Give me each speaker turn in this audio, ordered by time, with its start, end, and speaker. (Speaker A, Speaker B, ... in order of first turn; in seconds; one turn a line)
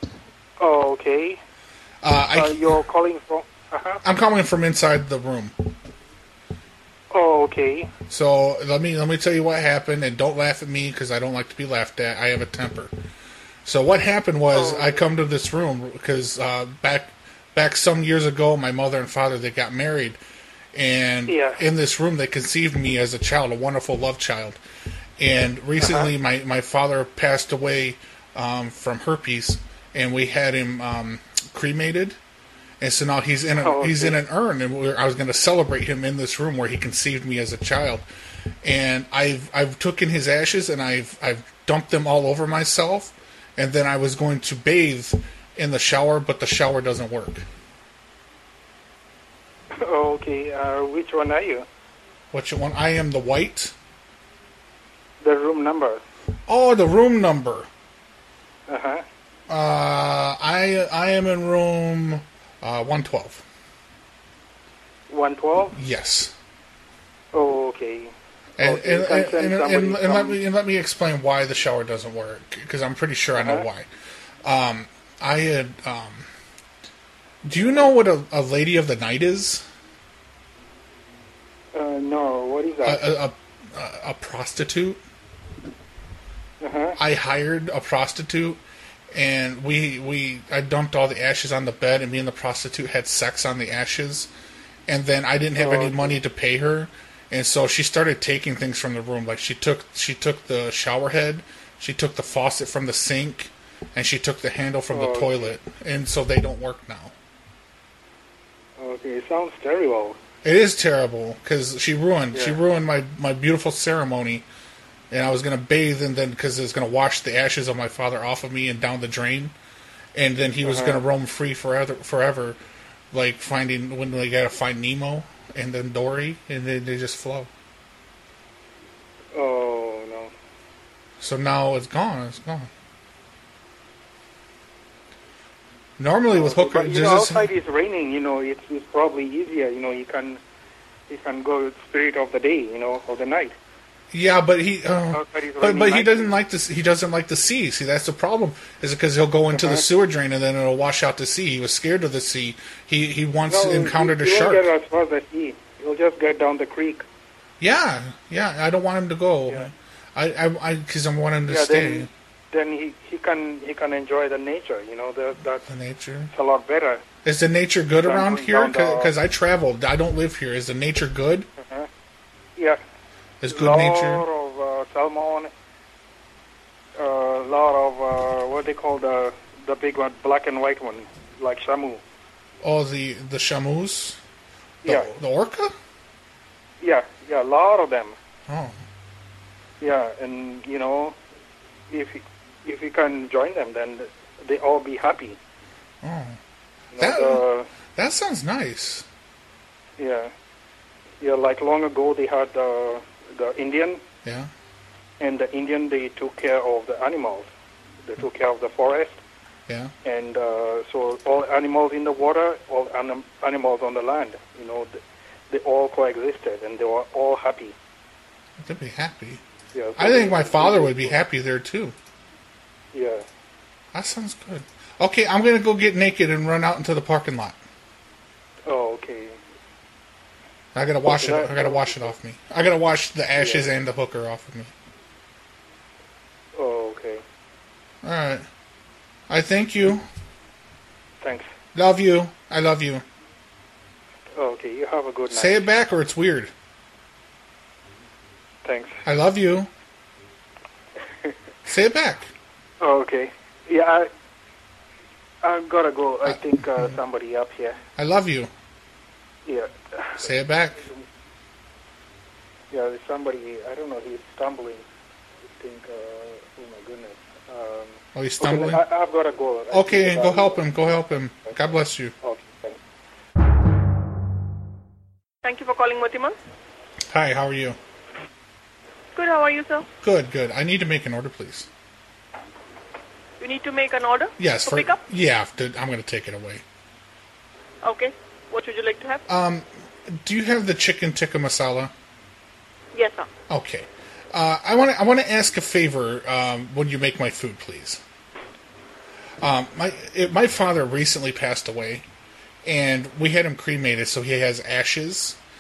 Speaker A: 0.6-1.4
Speaker B: 2.0-2.8
Speaker A: 2.3-4.0
Speaker B: 4.0-5.8
Speaker A: 7.1-7.9
Speaker B: 8.1-12.9
Speaker B: 13.7-20.2
Speaker A: 14.5-15.1
Speaker B: 20.7-24.6
Speaker A: 21.3-21.6
Speaker B: 25.2-32.2
Speaker A: 25.8-26.1
Speaker B: 32.8-38.0
Speaker A: 33.6-34.2
Speaker B: 38.6-47.5
Speaker A: 49.8-51.7
Speaker B: 52.3-53.7
Speaker A: 55.2-56.0
Speaker B: 56.5-57.7
Speaker A: 58.7-59.0
Speaker B: 59.5-63.4
Speaker A: 65.1-65.8
Speaker B: 65.7-66.3
Speaker A: 67.3-70.4
Speaker B: 68.6-73.9
Speaker A: 73.4-73.7
Speaker B: 74.4-76.3
Speaker B: 77.4-79.7
Speaker A: 81.7-83.1
Speaker B: 82.8-85.0
Speaker A: 86.6-87.0
Speaker B: 87.0-88.6
Speaker B: 89.1-94.3
Speaker B: 94.9-107.1
Speaker A: 95.6-96.2
Speaker A: 104.9-105.6
Speaker A: 108.8-110.2
Speaker B: 110.4-114.5
Speaker B: 115.1-119.5
Speaker B: 120.2-122.6
Speaker A: 120.6-121.0
Speaker B: 123.1-127.5
Speaker A: 129.3-130.3
Speaker B: 131.2-132.7
Speaker B: 136.0-137.5
Speaker A: 136.3-140.4
Speaker A: 141.1-143.5
Speaker B: 144.1-154.7
Speaker A: 145.1-146.3
Speaker A: 149.5-149.8
Speaker A: 153.5-157.0
Speaker B: 157.6-162.1
Speaker A: 161.5-165.6
Speaker B: 165.6-166.3
Speaker A: 166.3-167.0
Speaker B: 167.2-171.5
Speaker A: 168.0-169.1
Speaker A: 171.6-171.9
Speaker B: 173.4-174.2
Speaker A: 173.5-175.5
Speaker A: 177.0-182.0
Speaker B: 182.6-184.2
Speaker B: 184.8-185.7
Speaker A: 186.8-188.2
Speaker B: 188.5-188.8
Speaker A: 189.8-191.2
Speaker A: 191.9-195.4
Speaker B: 196.0-196.4
Speaker A: 196.9-197.7
Speaker B: 197.0-197.4
Speaker B: 197.9-199.1
Speaker A: 200.0-200.3
Speaker A: 201.2-204.0
Speaker B: 204.2-204.5
Speaker A: 205.2-207.5
Speaker A: 208.0-209.2
Speaker A: 210.1-215.0
Speaker A: 215.5-217.8
Speaker B: 218.6-219.4
Speaker A: 219.7-221.2
Speaker B: 220.0-221.9
Speaker A: 222.9-223.2
Speaker B: 223.9-227.6
Speaker A: 228.7-229.4
Speaker B: 230.8-234.7
Speaker A: 231.1-232.1
Speaker A: 233.4-233.7
Speaker A: 236.6-237.2
Speaker B: 238.0-238.5
Speaker B: 239.3-240.1
Speaker A: 241.2-241.5
Speaker B: 241.8-243.0
Speaker A: 244.3-245.7
Speaker B: 245.3-246.5
Speaker A: 248.7-249.0
Speaker B: 249.1-249.7
Speaker B: 251.7-252.3
Speaker A: 252.8-254.1
Speaker A: 255.4-257.8
Speaker B: 256.3-256.9
Speaker B: 258.0-258.5
Speaker A: 259.5-260.3
Speaker B: 260.2-260.8
Speaker A: 262.7-264.8
Speaker A: 265.6-271.6
Speaker B: 268.1-268.8
Speaker B: 269.7-272.1
Speaker A: 272.2-272.8
Speaker C: 275.4-276.4
Speaker B: 277.1-277.8
Speaker C: 279.1-279.9
Speaker B: 280.0-281.7
Speaker C: 283.4-285.0
Speaker B: 284.4-286.6
Speaker C: 287.8-289.2
Speaker B: 289.3-291.9
Speaker C: 292.9-293.3
Speaker B: 293.5-298.0
Speaker B: 299.4-302.1
Speaker B: 302.6-305.4